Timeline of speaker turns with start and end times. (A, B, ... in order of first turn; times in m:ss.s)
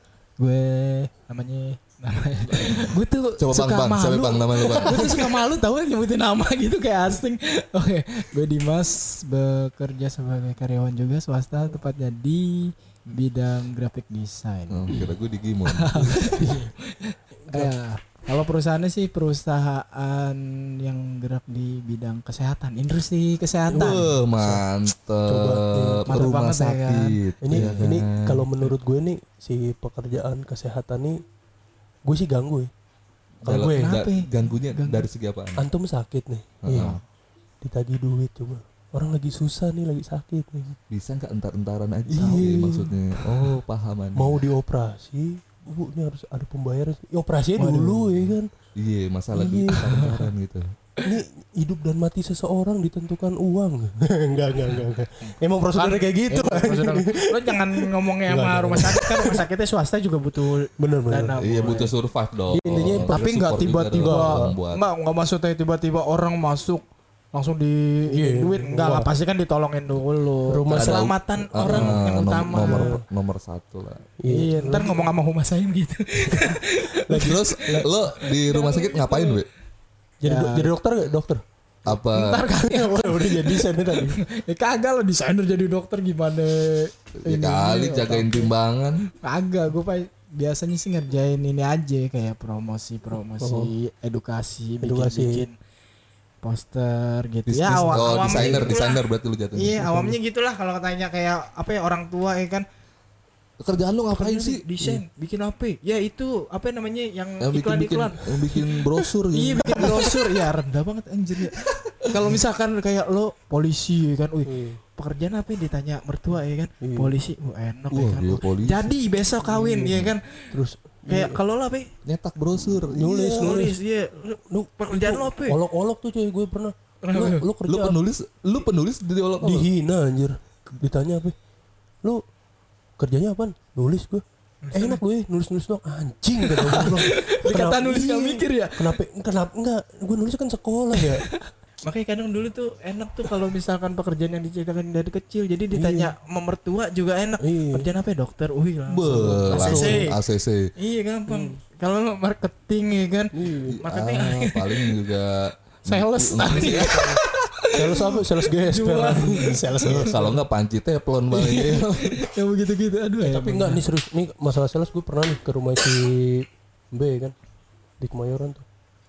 0:00.4-0:24.1 A
0:02.6-0:05.3 B
0:14.7-0:16.3 B
0:16.4-0:16.7 C
0:23.7-0:24.6 C
0:23.8-0:28.7 B
0:25.3-0:26.5 C
0:26.1-0:27.2 A
0:27.4-0:31.2 C
0:32.0-0:32.7 C
0:33.4-0:35.6 B
0:33.4-0:33.9 C
0:33.7-0:35.1 A
0:35.6-0:36.9 C
0:36.6-0:37.0 B
0:37.6-0:40.8 C
0:40.9-0:44.4 B
0:42.1-0:42.9 C
0:44.1-0:48.5 C
0:47.6-0:48.3 A
0:48.7-0:50.6 B
0:49.3-0:49.9 C
0:49.7-0:50.3 A
0:51.0-0:57.6 C
0:54.7-1:02.0 A
0:58.3-0:59.3 C
1:00.8-1:01.4 C
1:01.4-1:04.8 B
1:02.5-1:03.2 C
1:03.1-1:13.0 A
1:03.9-1:04.5 C
1:08.1-1:09.1 C
1:10.5-1:13.0 C
1:10.7-1:14.1 B
1:14.2-1:15.0 C
1:14.3-1:19.4 A
1:17.1-1:17.9 C
1:17.3-1:19.4 B
1:20.2-1:21.4 C
1:20.2-1:20.7 A
1:21.8-1:22.4 B
1:22.1-1:28.5 A
1:22.7-1:24.2 C
1:27.2-1:29.0 B
1:29.2-1:35.6 A
1:33.4-1:33.7 C
1:34.8-1:35.5 C
1:36.4-1:42.6 A
1:37.5-1:39.8 B
1:38.3-1:38.8 C
1:39.8-1:40.2 C
1:43.6-1:44.6 B
1:44.1-1:48.7 A
1:47.4-1:50.3 B
1:49.3-2:01.9 A
1:51.6-1:52.2 B
1:54.4-1:54.8 C
1:56.8-1:57.1 C
1:57.9-1:58.9 B
1:59.4-1:59.8 C
1:59.7-2:00.1 B
2:00.5-2:01.4 C
2:02.0-2:03.1 B
2:02.9-2:03.8 C
2:03.0-2:05.6 A
2:04.4-2:08.0 C
2:07.0-2:07.5 A
2:07.6-2:09.7 B
2:09.4-2:11.3 C
2:13.0-2:21.2 C
2:14.6-2:15.0 A
2:16.4-2:19.0 A
2:20.9-2:35.1 A
2:25.7-2:26.1 C
2:27.4-2:27.9 C
2:28.9-2:30.6 B
2:29.5-2:30.0 C
2:31.3-2:31.6 C
2:33.3-2:33.8 C
2:33.7-2:37.0 B
2:35.8-2:40.3 A
2:37.7-2:40.2 C
2:39.8-2:42.1 B
2:41.3-2:43.8 A
2:43.2-2:47.3 C
2:48.0-2:48.6 C